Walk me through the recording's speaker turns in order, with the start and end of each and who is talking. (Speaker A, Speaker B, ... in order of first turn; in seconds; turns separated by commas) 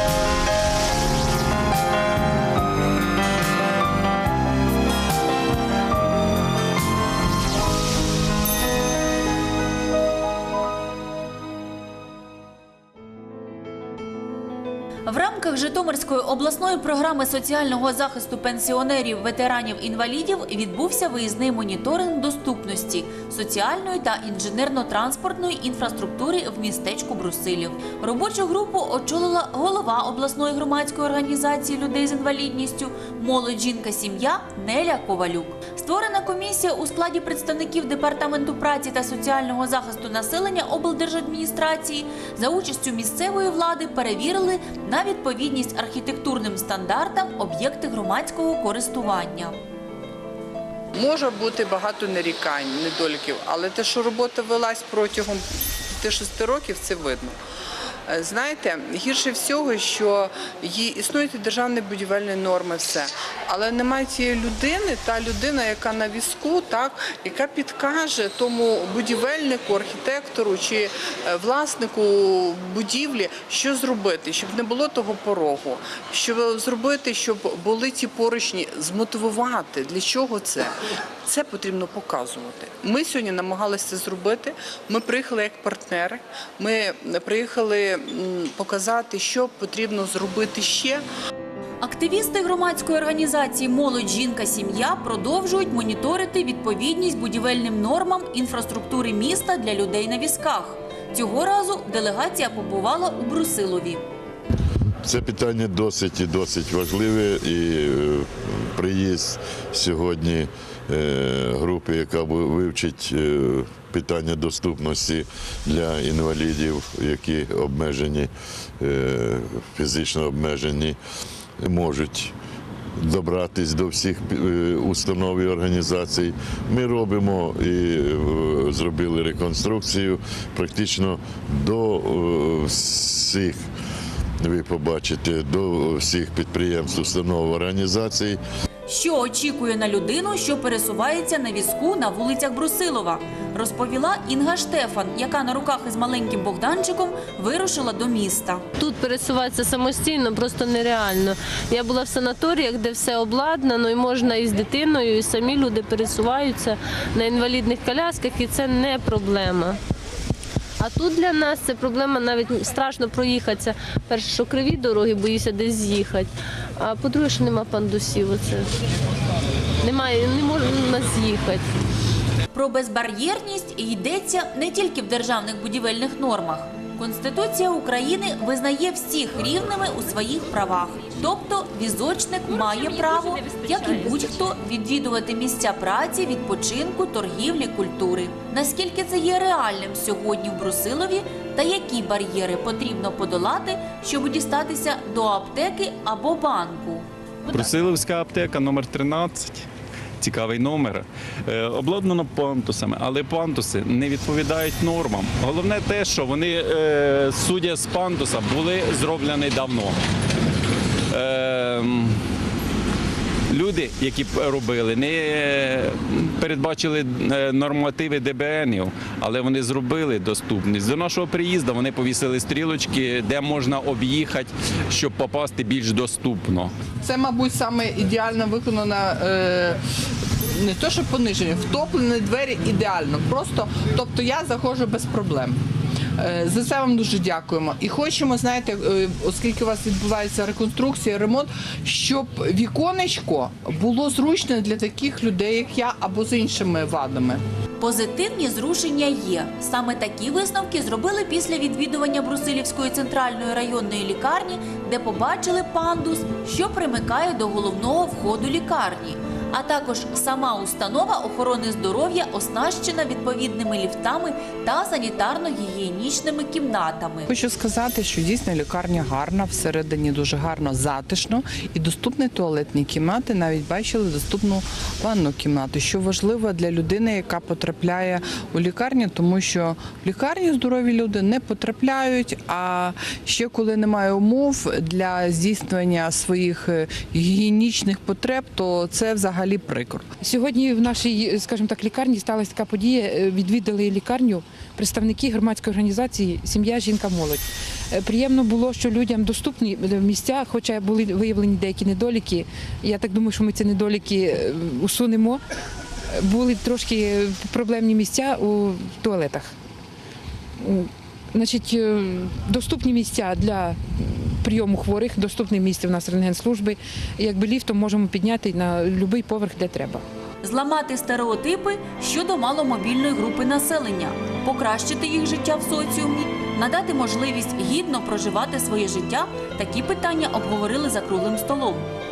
Speaker A: 15.1-49.6, Speaker B: 50.9-55.4, Speaker B: 56.0-57.4, Speaker B: 58.1-80.7, Speaker B: 81.2-91.0, Speaker A: 91.8-104.0, Speaker C: 105.0-121.0, Speaker C: 121.6-122.3, Speaker C: 123.0-133.6, Speaker C: 134.4-138.4, Speaker A: 138.9-148.6, Speaker D: 148.8-159.8, Speaker D: 160.8-168.7, Speaker D: 169.8-171.7, Speaker A: 172.5-197.1, Speaker E: 197.5-199.7, Speaker E: 200.2-210.0, Speaker E: 211.1-212.2, Speaker E: 213.5-226.7, Speaker B: 227.0-229.8, Speaker B: 230.5-235.6, Speaker B: 236.2-247.4, Speaker A: 247.8-267.3, Speaker B: 267.3-290.1, Speaker F: 290.2-305.4, Speaker F: 306.2-309.5, Speaker F: 310.6-320.0, Speaker A: 320.4-331.9